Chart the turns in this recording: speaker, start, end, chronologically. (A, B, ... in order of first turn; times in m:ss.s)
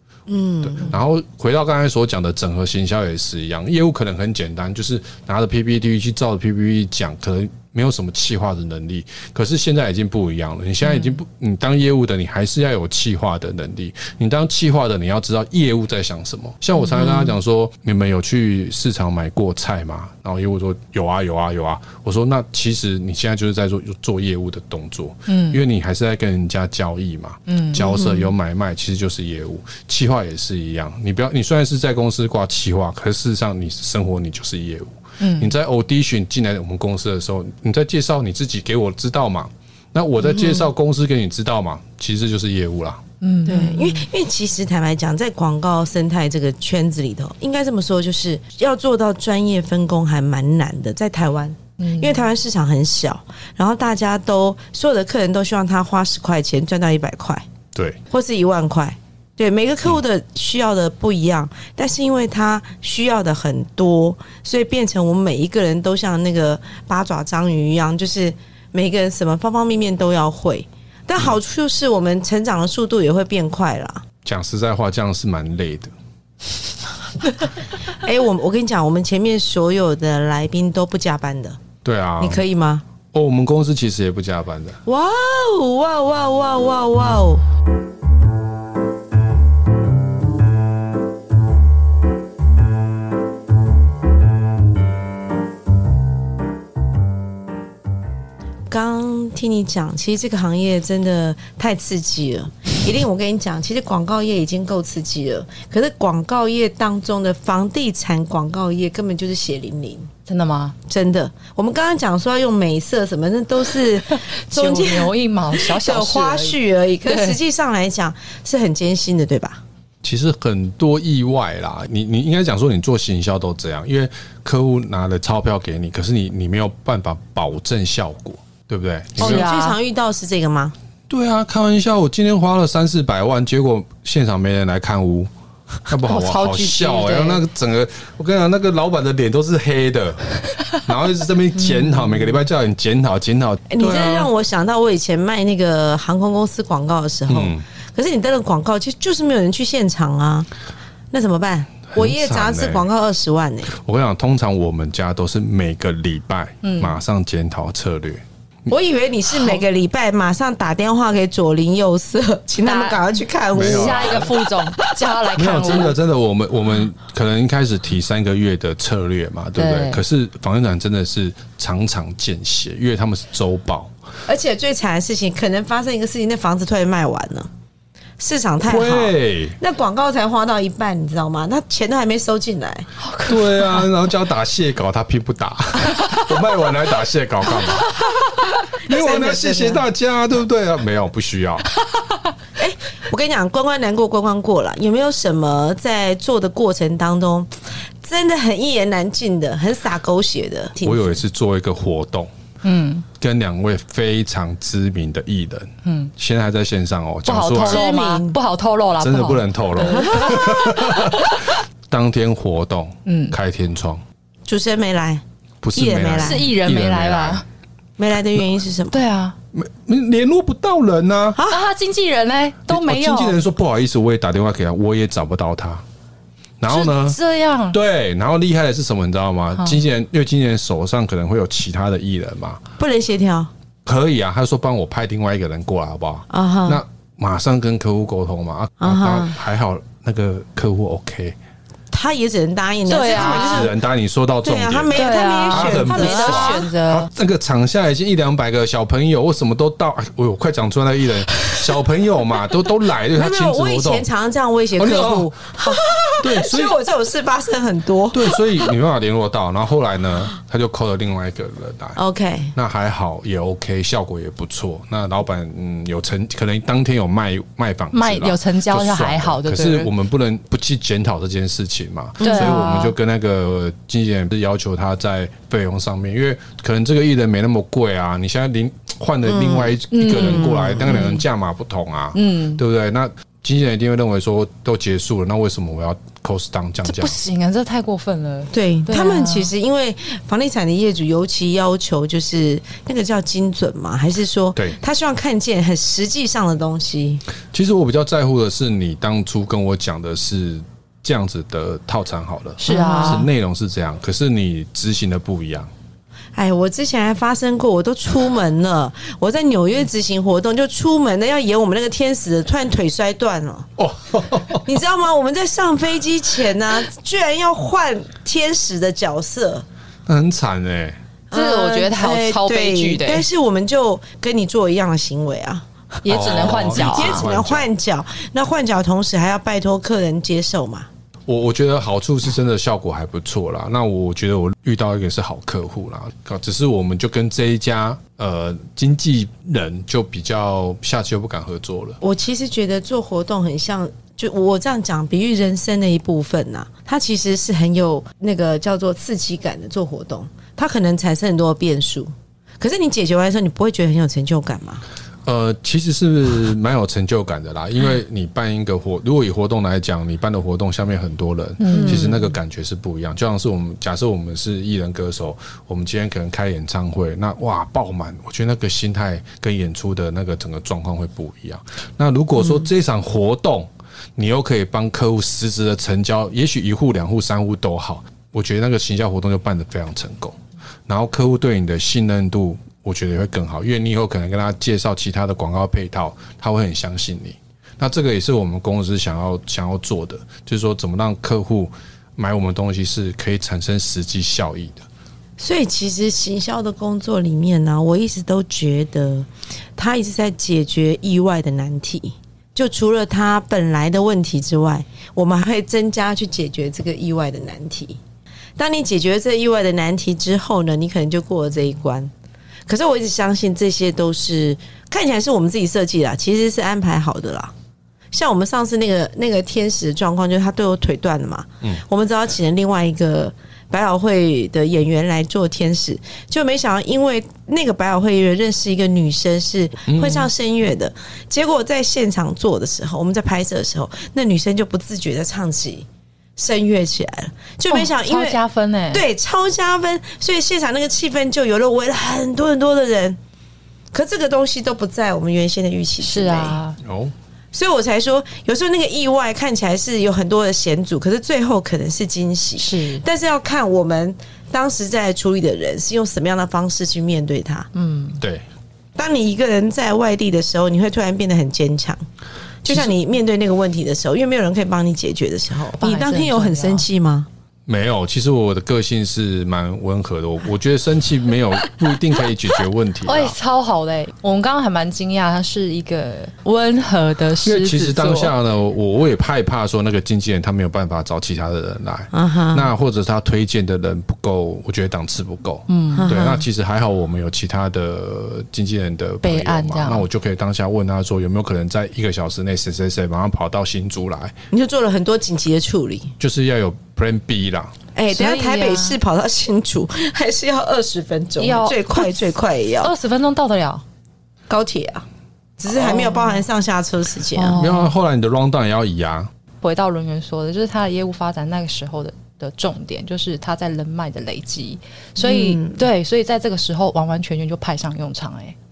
0:00.3-0:00.9 A
0:00.6-0:43.0 B
0:25.3-0:25.6 C
0:27.5-0:27.8 C
0:27.8-0:28.3 A
0:35.2-0:35.5 C
0:43.2-0:44.0 C
0:43.4-0:57.4 A
0:51.8-0:52.2 C
0:57.7-0:58.0 B
0:58.1-1:14.0 A
1:14.2-1:15.9 B
1:17.9-1:21.6 A
1:21.8-1:22.4 B
1:22.2-1:22.8 A
1:23.1-1:24.8 B
1:24.8-1:27.4 A
1:38.7-1:50.1 A
1:50.3-1:50.7 C
1:50.9-1:59.6 A
1:54.1-1:57.4 C
2:00.0-2:09.5 B
2:09.2-2:10.7 A
2:09.2-2:09.8 C
2:11.1-2:15.3 B
2:15.9-2:20.2 B
2:16.0-2:17.4 C
2:20.8-2:24.3 B
2:23.7-2:30.5 A
2:27.3-2:27.6 B
2:31.1-2:33.7 A
2:31.9-2:32.8 B
2:33.7-2:38.2 B
2:36.6-2:37.0 C
2:38.7-2:44.4 A
2:42.6-2:45.9 C
2:43.5-2:44.3 B
2:45.3-2:53.9 B
2:49.6-2:50.0 C
2:54.3-2:57.5 A
2:58.2-3:02.9 A
2:58.6-2:59.6 B
3:03.0-3:03.9 C
3:03.2-3:07.9 B
3:08.8-3:09.8 A
3:08.8-3:11.7 B
3:12.6-3:21.2 A
3:20.8-3:22.3 B
3:22.6-3:23.0 C
3:23.2-3:27.8 B
3:25.8-3:26.1 C
3:27.2-3:31.5 C
3:27.6-3:28.4 A
3:29.0-3:34.0 B
3:29.9-3:30.4 A
3:33.0-3:33.4 C
3:34.4-3:35.2 A
3:35.6-3:37.4 B
3:35.7-3:36.5 A
3:36.2-3:37.4 C
3:38.0-3:39.0 A
3:38.9-3:39.4 C
3:39.5-3:41.4 B
3:41.4-3:41.6 A
3:41.5-3:43.4 C
3:42.7-3:45.8 B
3:46.6-3:47.2 B
3:46.7-3:47.8 C
3:47.7-3:52.6 B
3:52.8-3:53.5 A
3:53.8-4:01.4 B
3:56.3-3:56.8 A
3:58.8-3:59.4 A
4:01.9-4:03.8 A
4:02.9-4:03.7 C
4:03.1-4:14.0 B
4:04.4-4:06.7 A
4:04.9-4:07.1 C
4:13.1-4:18.4 A
4:14.8-4:16.8 B
4:18.1-4:22.0 B
4:22.0-4:22.5 A
4:22.5-4:47.2 B
4:27.9-4:29.9 C
4:32.2-4:32.8 A
4:32.2-4:32.9 C
4:39.2-4:41.2 A
4:39.9-4:41.2 C
4:42.1-4:42.6 C
4:46.8-4:49.5 C
4:48.5-4:57.2 A
4:57.5-5:05.7 B
5:02.6-5:03.3 C
5:02.7-5:03.2 A
5:06.3-5:13.7 A
5:13.8-5:14.6 B
5:14.6-5:19.6 A
5:20.0-5:21.0 B
5:21.3-5:30.9 A
5:21.3-5:23.2 C
5:26.0-5:27.3 C
5:26.1-5:27.7 B
5:31.3-5:42.0 B
5:42.0-5:54.8 A
5:55.2-6:20.4 B
6:01.6-6:02.2 C
6:01.7-6:02.2 A
6:20.9-6:34.8 B
6:35.4-6:48.0 A
6:48.6-6:52.1 A
6:52.7-6:57.5 A
6:58.1-7:15.8 A
7:09.9-7:10.3 B
7:16.4-7:18.4 A
7:17.7-7:19.0 C
7:18.9-7:23.2 A
7:23.9-7:26.6 A
7:26.0-7:26.8 C
7:26.8-7:27.1 B
7:27.5-7:37.7 A
7:32.6-7:33.0 C
7:37.7-7:38.2 C
7:39.0-7:42.0 A
7:42.6-7:47.3 A
7:45.8-7:46.8 C
7:47.7-7:53.3 B
7:53.0-7:58.3 C
7:57.4-8:14.3 B
8:02.1-8:02.7 A
8:05.7-8:06.2 C
8:05.9-8:06.4 A
8:09.2-8:10.0 C
8:14.5-8:16.1 A
8:16.2-8:17.8 B
8:17.9-8:22.9 A
8:18.1-8:19.0 C
8:21.4-8:23.8 C
8:24.5-8:25.0 A
8:25.6-8:27.6 A
8:25.8-8:26.4 C
8:27.4-8:27.9 C
8:27.6-8:29.3 B
8:29.6-8:38.6 C
8:35.2-8:35.8 A